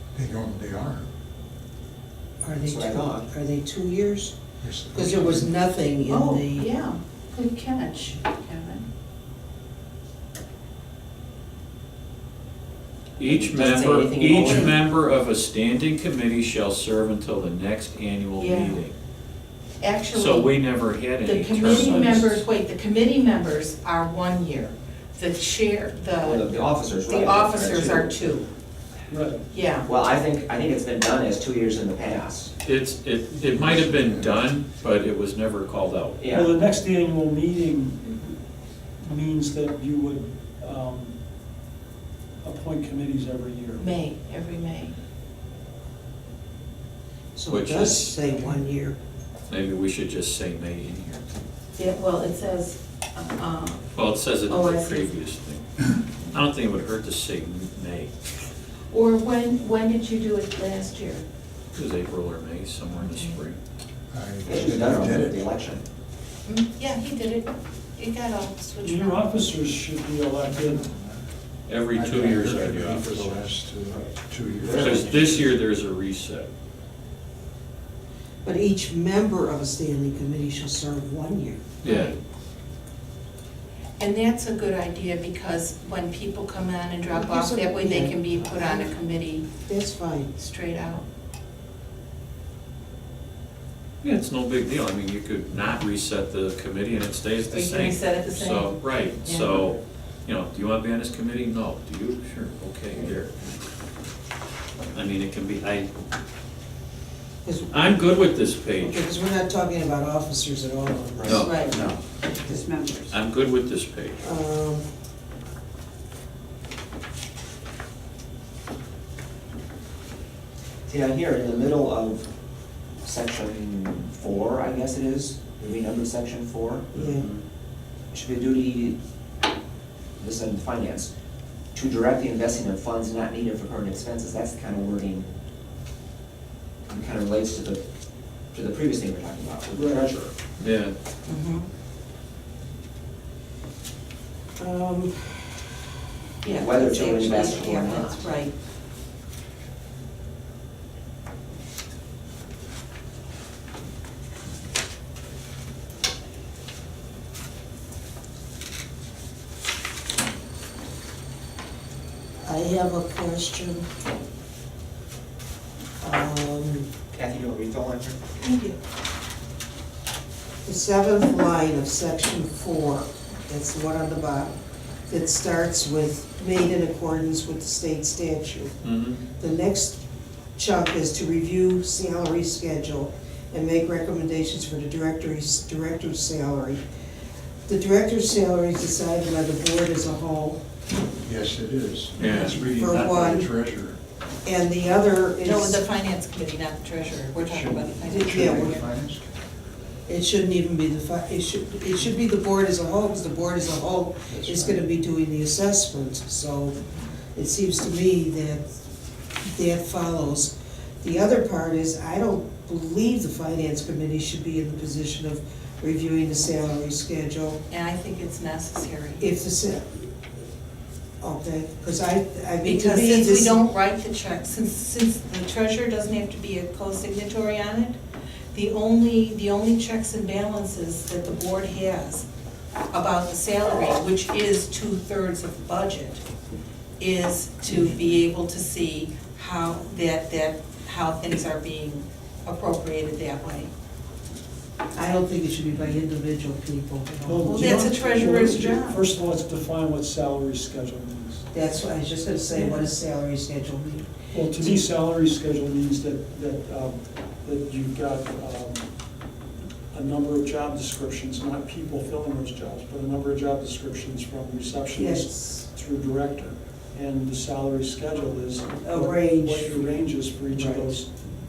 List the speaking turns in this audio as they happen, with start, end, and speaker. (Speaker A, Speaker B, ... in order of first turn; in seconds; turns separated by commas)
Speaker A: 0.1-1.1, Speaker B: 2.4-4.3, Speaker C: 2.6-3.3, Speaker A: 4.6-5.5, Speaker B: 4.9-6.7, Speaker D: 6.0-8.8, Speaker E: 13.2-18.9, Speaker C: 13.2-14.8, Speaker D: 18.4-18.8, Speaker D: 19.8-28.5, Speaker E: 20.1-22.4, Speaker C: 26.2-28.3, Speaker F: 29.1-29.5, Speaker D: 29.5-29.9, Speaker C: 29.8-32.5, Speaker E: 32.6-36.2, Speaker A: 33.4-34.5, Speaker C: 36.2-36.6, Speaker F: 36.3-38.4, Speaker F: 39.0-41.1, Speaker F: 42.4-43.9, Speaker D: 43.8-45.0, Speaker B: 47.4-49.0, Speaker E: 47.5-48.2, Speaker E: 49.5-51.2, Speaker D: 51.8-53.9, Speaker E: 53.9-58.1, Speaker D: 54.5-55.1, Speaker D: 58.9-61.2, Speaker E: 61.7-63.6, Speaker D: 62.9-63.4, Speaker A: 64.1-65.5, Speaker C: 64.5-65.8, Speaker D: 66.5-69.5, Speaker F: 68.8-70.9, Speaker A: 70.6-71.2, Speaker E: 71.7-73.4, Speaker A: 71.9-75.3, Speaker C: 73.9-75.5, Speaker E: 74.8-76.5, Speaker B: 78.4-81.6, Speaker E: 81.8-82.1, Speaker D: 81.8-82.2, Speaker D: 84.0-89.5, Speaker B: 87.1-88.9, Speaker B: 89.7-90.4, Speaker D: 90.4-91.0, Speaker E: 94.0-103.3, Speaker D: 97.5-99.7, Speaker E: 104.9-105.9, Speaker B: 107.5-108.0, Speaker E: 107.7-109.0, Speaker B: 108.8-111.8, Speaker C: 111.2-112.0, Speaker E: 111.3-112.0, Speaker D: 111.4-111.8, Speaker D: 112.5-113.0, Speaker E: 113.1-114.2, Speaker B: 114.2-114.9, Speaker C: 120.9-122.3, Speaker C: 123.0-126.9, Speaker B: 126.9-127.3, Speaker E: 127.0-127.4, Speaker C: 128.1-129.0, Speaker C: 130.2-131.1, Speaker C: 131.7-135.3, Speaker C: 136.9-137.8, Speaker C: 138.5-140.3, Speaker F: 139.7-140.1, Speaker E: 140.6-140.9, Speaker D: 141.3-141.7, Speaker B: 144.6-145.4, Speaker D: 146.4-148.5, Speaker C: 146.5-148.3, Speaker B: 162.4-163.9, Speaker B: 166.0-166.9, Speaker C: 167.1-168.3, Speaker D: 168.4-168.8, Speaker B: 170.7-174.6, Speaker B: 175.1-178.8, Speaker E: 178.8-179.2, Speaker B: 179.4-180.0, Speaker B: 180.6-186.8, Speaker B: 187.7-190.6, Speaker A: 191.2-194.0, Speaker E: 192.2-192.6, Speaker B: 192.3-193.5, Speaker B: 194.4-195.8, Speaker D: 195.4-198.6, Speaker A: 197.5-199.2, Speaker B: 198.1-198.8, Speaker B: 200.1-206.8, Speaker A: 204.3-204.8, Speaker B: 207.3-208.7, Speaker B: 209.4-217.6, Speaker D: 217.7-219.3, Speaker B: 219.2-220.1, Speaker B: 221.2-223.6, Speaker D: 222.6-228.0, Speaker D: 228.5-232.3, Speaker D: 232.9-236.2, Speaker D: 237.0-243.7, Speaker B: 244.9-247.9, Speaker F: 247.2-251.5, Speaker D: 247.6-249.0, Speaker B: 251.5-254.8, Speaker F: 254.3-258.8, Speaker F: 259.9-271.1, Speaker B: 264.9-265.7, Speaker B: 268.8-269.9, Speaker B: 270.5-271.0